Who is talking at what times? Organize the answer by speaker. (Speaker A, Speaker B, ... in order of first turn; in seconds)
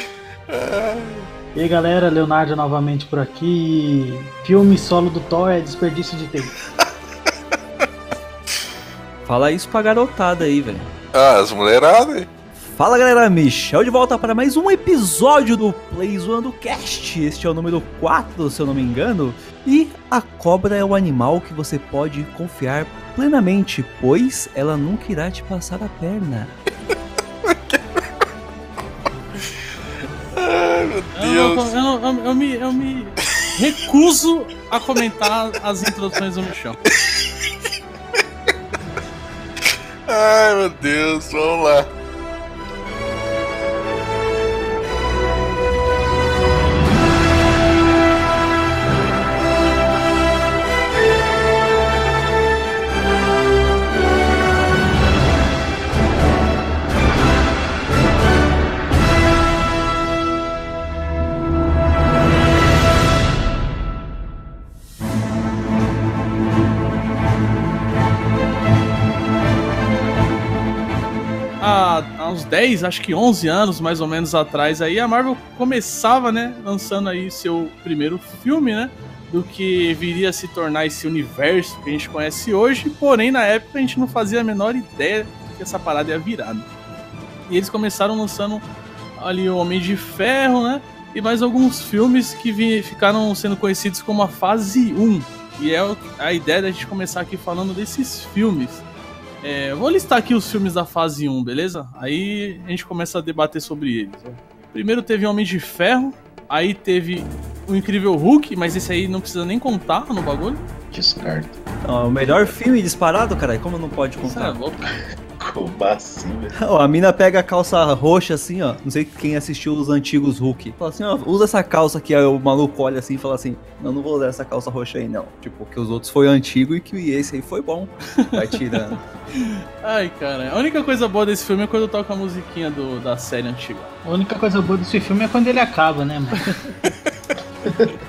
Speaker A: 0.5-1.3, 11.1-12.3, 27.4-27.8, 30.4-31.7, 36.9-37.3, 40.1-41.9
Speaker B: 1.6-6.5, 134.1-136.5
Speaker C: 9.2-10.9, 12.6-26.5, 111.8-114.6, 116.5-129.0
Speaker D: 31.2-36.8, 71.6-86.7, 87.5-88.7, 89.2-98.8, 99.4-110.7, 114.2-114.9, 128.2-133.9
Speaker E: 110.9-111.6, 115.3-116.6, 137.7-137.9